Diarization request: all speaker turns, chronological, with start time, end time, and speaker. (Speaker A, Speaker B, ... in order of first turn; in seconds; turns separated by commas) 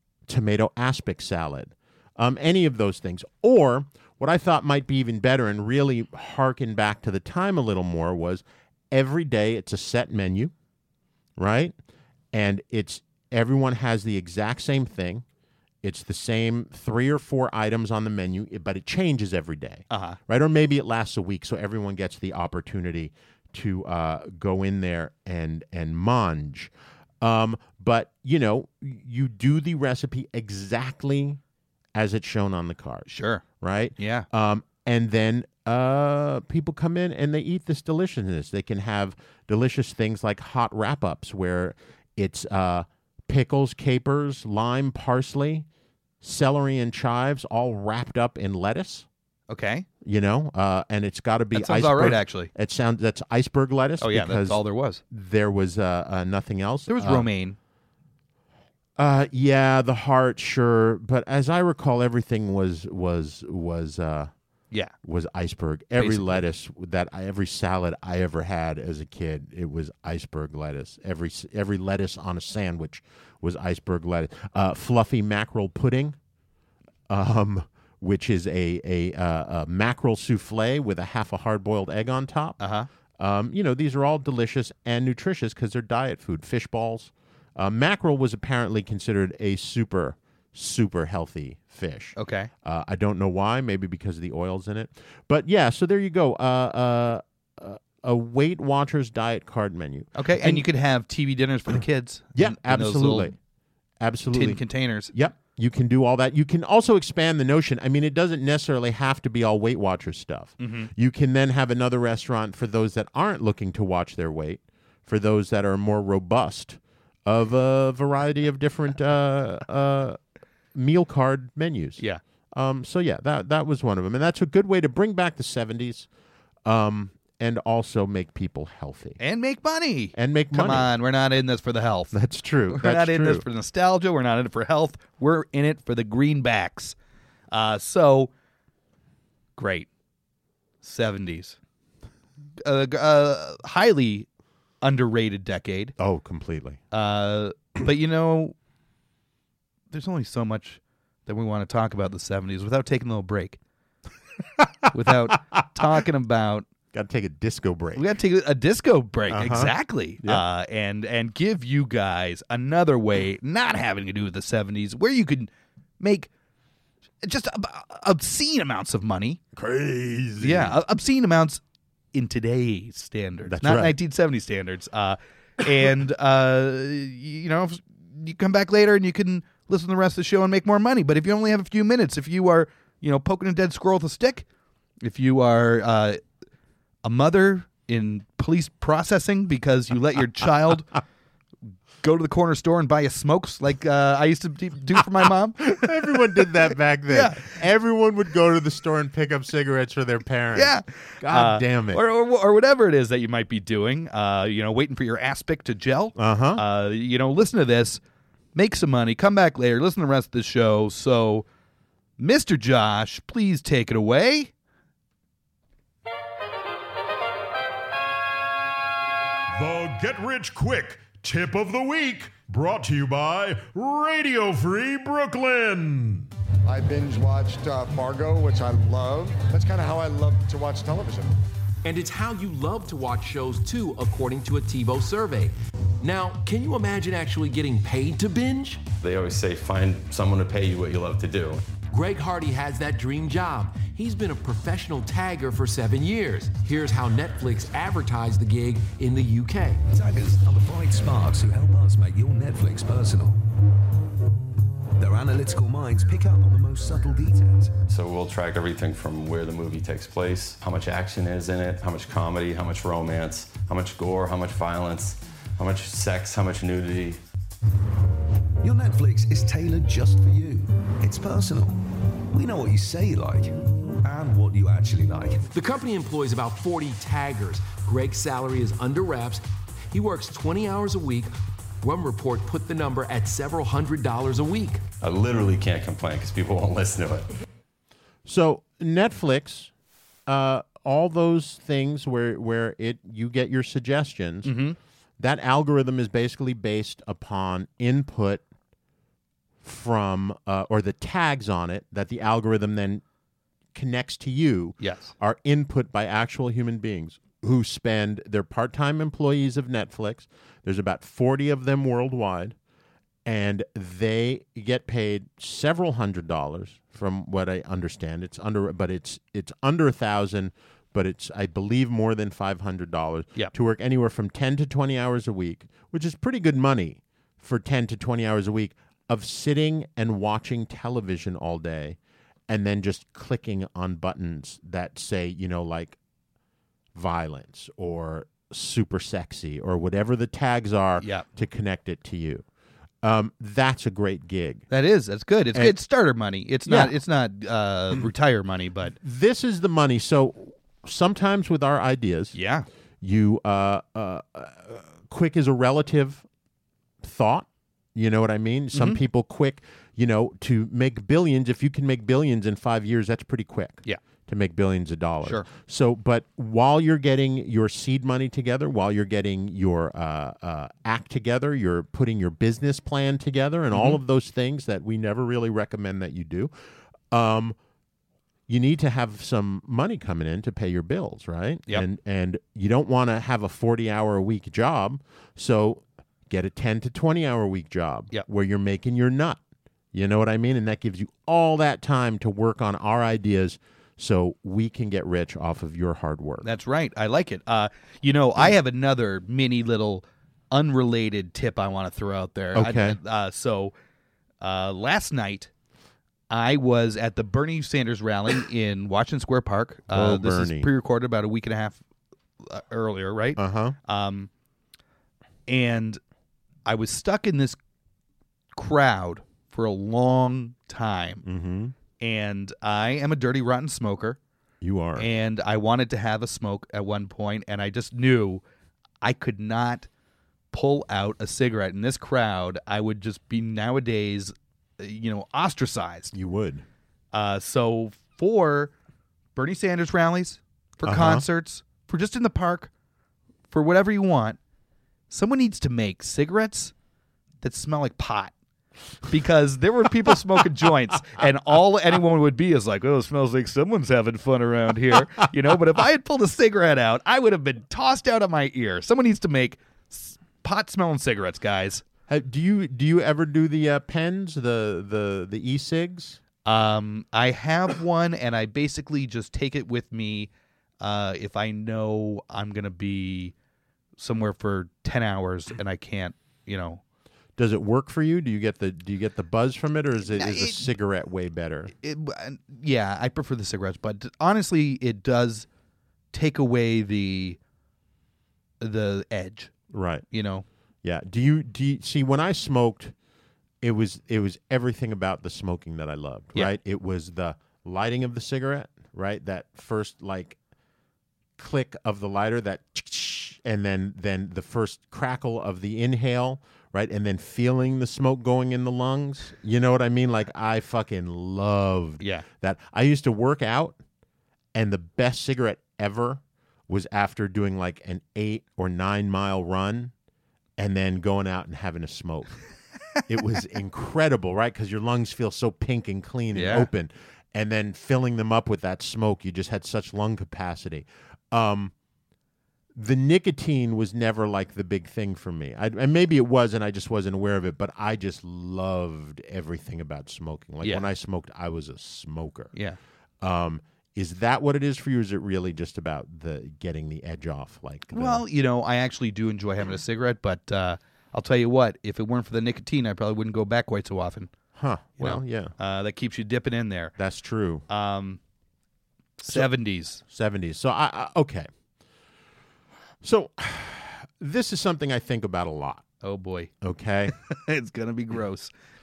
Speaker A: 0.3-10.5, Speaker A: 11.4-11.7, Speaker A: 12.3-15.2, Speaker A: 15.8-31.4, Speaker B: 19.9-20.2, Speaker A: 31.9-45.6, Speaker B: 33.1-33.4, Speaker B: 34.0-34.3, Speaker A: 46.2-49.1, Speaker B: 49.5-49.9, Speaker A: 50.0-57.3, Speaker B: 51.5-52.5, Speaker B: 54.0-55.0, Speaker B: 56.9-57.6, Speaker A: 59.0-64.3, Speaker A: 65.0-76.2, Speaker B: 66.0-66.4, Speaker A: 77.1-82.6, Speaker B: 82.6-82.9, Speaker A: 83.2-100.6, Speaker B: 92.2-92.5, Speaker B: 100.2-103.3, Speaker A: 102.3-103.4, Speaker A: 104.0-120.2, Speaker B: 104.3-105.1, Speaker B: 110.6-110.9, Speaker A: 120.7-126.1, Speaker A: 126.6-129.2, Speaker B: 129.2-132.2, Speaker A: 130.1-130.9, Speaker A: 132.1-133.4, Speaker B: 132.7-136.9, Speaker B: 137.5-138.3, Speaker B: 139.6-139.9, Speaker B: 140.8-141.6, Speaker B: 142.6-144.3, Speaker B: 144.8-145.9, Speaker A: 146.0-146.8, Speaker B: 146.9-148.5, Speaker B: 149.9-153.6, Speaker B: 154.9-156.7, Speaker A: 156.9-158.1, Speaker B: 157.9-166.3, Speaker A: 159.3-160.4, Speaker B: 167.2-169.4, Speaker A: 169.5-170.8, Speaker B: 170.4-171.6, Speaker B: 172.1-184.4, Speaker A: 173.5-173.9, Speaker B: 185.0-186.2, Speaker B: 187.0-191.0, Speaker B: 192.0-195.8, Speaker A: 195.6-202.0, Speaker B: 197.1-197.6, Speaker B: 200.5-208.0, Speaker A: 206.2-206.6, Speaker B: 208.5-211.4, Speaker B: 212.2-214.5, Speaker C: 219.5-226.3, Speaker D: 226.7-231.4, Speaker E: 231.8-238.9, Speaker F: 239.0-241.8, Speaker E: 241.9-249.8, Speaker G: 249.9-253.4, Speaker G: 255.0-257.8, Speaker F: 257.9-267.2, Speaker G: 268.6-275.5, Speaker E: 275.5-284.8, Speaker F: 285.0-287.3, Speaker A: 288.2-289.7, Speaker A: 290.2-294.6, Speaker B: 294.4-294.8, Speaker A: 295.2-298.4, Speaker A: 299.6-303.0, Speaker A: 303.7-312.6, Speaker B: 304.8-305.1, Speaker A: 313.2-336.0, Speaker A: 336.9-342.4, Speaker B: 341.0-341.2, Speaker A: 343.0-344.6, Speaker B: 344.7-348.9, Speaker A: 346.6-347.0, Speaker A: 349.0-352.4, Speaker B: 352.3-352.6, Speaker A: 353.0-356.2, Speaker A: 357.0-376.5, Speaker B: 358.7-359.0, Speaker B: 373.7-374.0, Speaker A: 377.1-377.6, Speaker A: 378.5-389.4, Speaker A: 389.9-396.5, Speaker B: 396.4-403.7, Speaker A: 402.5-403.0, Speaker B: 404.4-405.5, Speaker B: 406.3-411.8, Speaker A: 409.9-410.7, Speaker B: 412.4-414.3, Speaker A: 413.4-413.8, Speaker B: 415.5-416.0, Speaker B: 416.6-417.6, Speaker B: 418.5-421.2, Speaker A: 421.2-421.7, Speaker B: 422.0-424.2, Speaker A: 424.6-425.1, Speaker B: 424.9-428.4, Speaker B: 429.0-429.9, Speaker B: 430.5-436.1, Speaker A: 436.1-436.6, Speaker B: 437.1-438.7, Speaker B: 439.3-442.7, Speaker A: 440.8-441.2, Speaker B: 443.5-444.4, Speaker B: 445.1-446.7, Speaker B: 447.4-448.3, Speaker B: 449.1-461.8, Speaker A: 462.1-466.2, Speaker B: 466.4-470.3, Speaker B: 470.8-473.3, Speaker B: 474.0-476.8, Speaker A: 477.4-481.7, Speaker B: 480.1-480.7, Speaker B: 481.8-485.5, Speaker B: 486.1-487.4, Speaker B: 488.6-489.5, Speaker A: 489.7-490.1, Speaker B: 490.1-490.4, Speaker A: 490.8-492.9, Speaker A: 493.6-500.4, Speaker A: 501.4-513.8, Speaker B: 512.0-512.2, Speaker A: 514.5-519.9, Speaker A: 520.6-522.4, Speaker A: 523.0-531.7, Speaker B: 526.3-526.7, Speaker A: 532.7-542.5, Speaker B: 540.6-540.9, Speaker A: 543.2-548.2, Speaker B: 547.9-554.3, Speaker A: 554.5-555.5, Speaker B: 555.0-557.0, Speaker A: 557.0-557.6, Speaker B: 557.7-558.2, Speaker B: 559.2-560.0, Speaker A: 560.0-561.5, Speaker A: 563.0-565.9, Speaker B: 566.0-566.5, Speaker A: 566.6-567.1, Speaker B: 567.1-568.5